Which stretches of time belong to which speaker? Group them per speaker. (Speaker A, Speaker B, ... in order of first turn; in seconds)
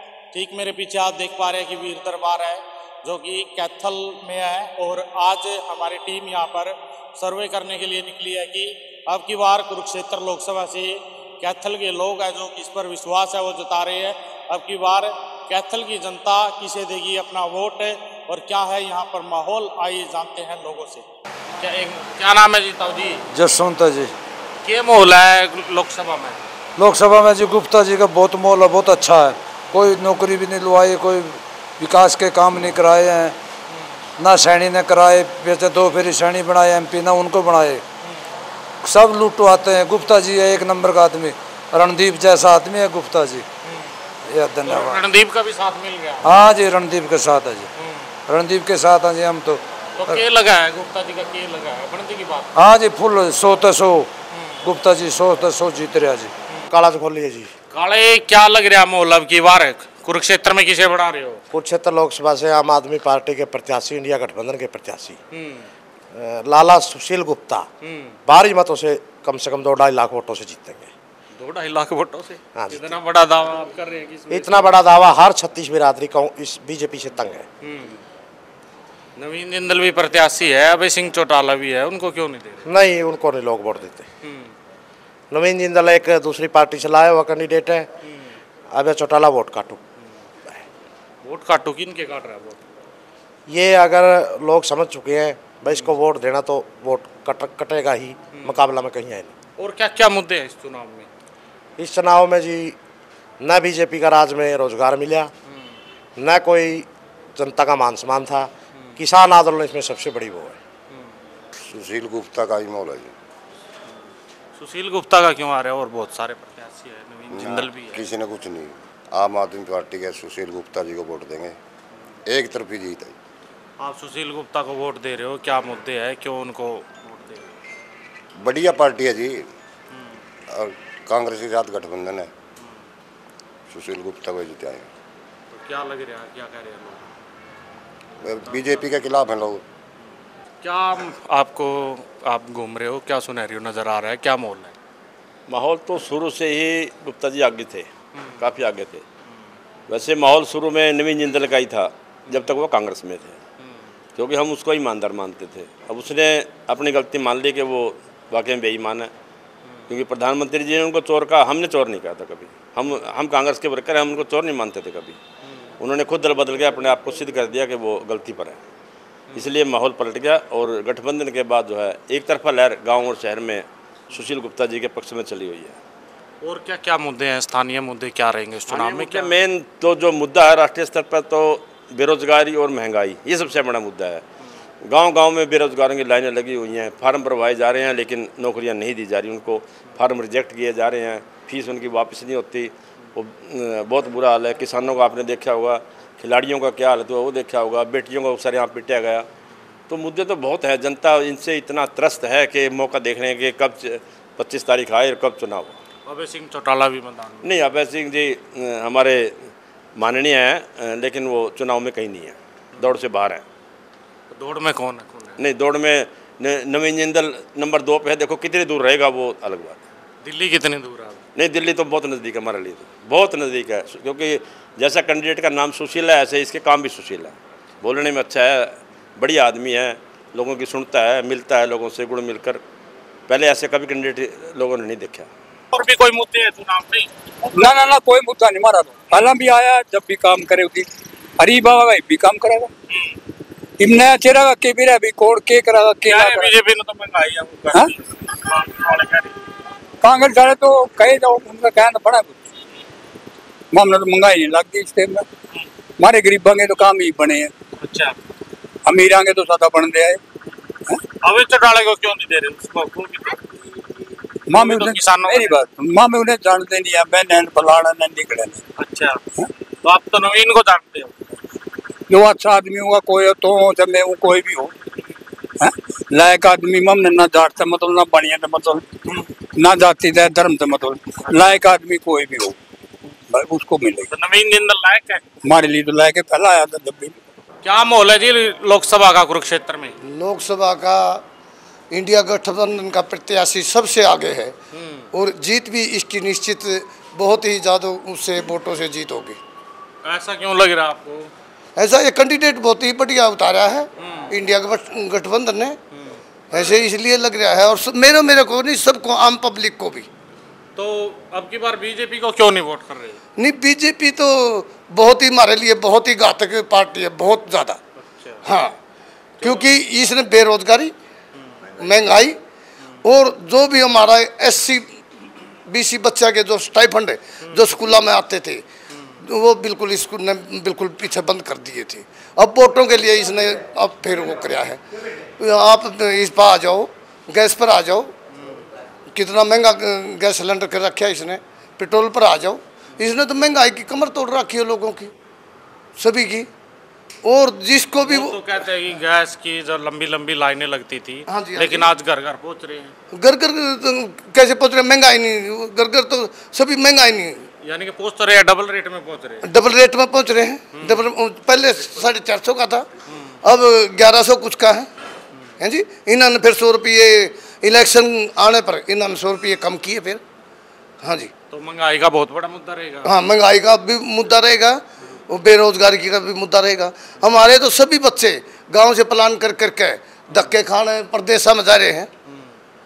Speaker A: 0.3-21.1, 21.6-23.2, 24.6-26.4, 43.6-43.9, 44.6-46.3, 47.8-48.1, 50.0-52.5, 57.7-61.4, 65.3-65.7, 67.8-68.1, 71.4-74.7, 77.6-78.0, 79.2-82.6, 84.2-84.5, 91.2-92.6, 98.3-98.6, 99.6-101.1, 114.5-118.0, 123.8-127.4, 129.9-130.2, 135.5-137.0, 138.4-138.8, 140.6-144.7, 148.1-148.5, 152.3-152.5, 176.4-179.3, 206.1-207.6, 214.3-215.4, 220.2-221.2, 235.7-237.1, 246.0-249.3, 257.8-258.1, 261.2-263.4, 264.5-265.6, 268.8-269.2, 269.8-271.1, 284.1-285.2, 287.6-289.9, 294.7-295.1, 300.0-301.3, 304.0-304.3, 310.8-313.2, 318.0-318.4, 319.4-319.7, 327.4-327.7, 328.9-329.2, 338.3-338.6, 348.0-352.9, 357.6-359.4, 360.7-361.1, 363.1-363.4, 371.5-373.1
Speaker B: 23.3-24.1, 26.8-33.3, 34.2-37.8, 38.8-43.4, 44.3-45.0, 46.2-47.7, 48.3-50.2, 52.5-54.1, 54.6-56.3
Speaker C: 56.7-57.5, 61.5-65.2, 66.1-67.7, 68.3-70.9, 72.5-72.9, 74.3-77.5, 82.7-84.0, 85.3-87.9, 88.7-89.8, 93.5-99.3, 101.8-102.8, 103.4-105.3, 106.2-110.6
Speaker D: 111.6-113.1, 117.3-121.5, 122.3-123.2, 128.4-129.4, 130.5-132.3, 133.7-134.9, 138.2-139.6
Speaker E: 145.5-149.0, 149.9-153.4, 154.2-159.1, 159.9-165.2, 165.8-168.6, 169.3-175.8, 178.7-184.2, 184.8-199.3, 199.9-205.8, 207.4-213.4, 215.4-219.8, 221.3-232.6, 233.3-235.3
Speaker F: 237.4-242.7, 243.8-246.5, 250.0-252.4, 253.7-255.2, 256.0-257.5, 258.9-260.2, 264.5-268.6, 272.1-274.7, 275.6-278.8, 279.6-282.6, 283.3-284.1, 285.4-287.1
Speaker G: 290.0-291.2, 291.9-294.5, 295.1-299.4, 301.8-305.8, 306.5-310.1, 313.4-317.8, 318.4-318.7, 319.4-320.9, 321.8-322.4, 323.0-324.9, 325.7-328.6, 329.2-334.8, 335.4-338.1, 339.1-345.1, 346.0-346.5, 347.2-348.4, 351.3-351.9, 353.1-357.4, 359.4-362.9, 363.4-364.9, 365.6-370.2, 371.0-371.3, 373.0-382.1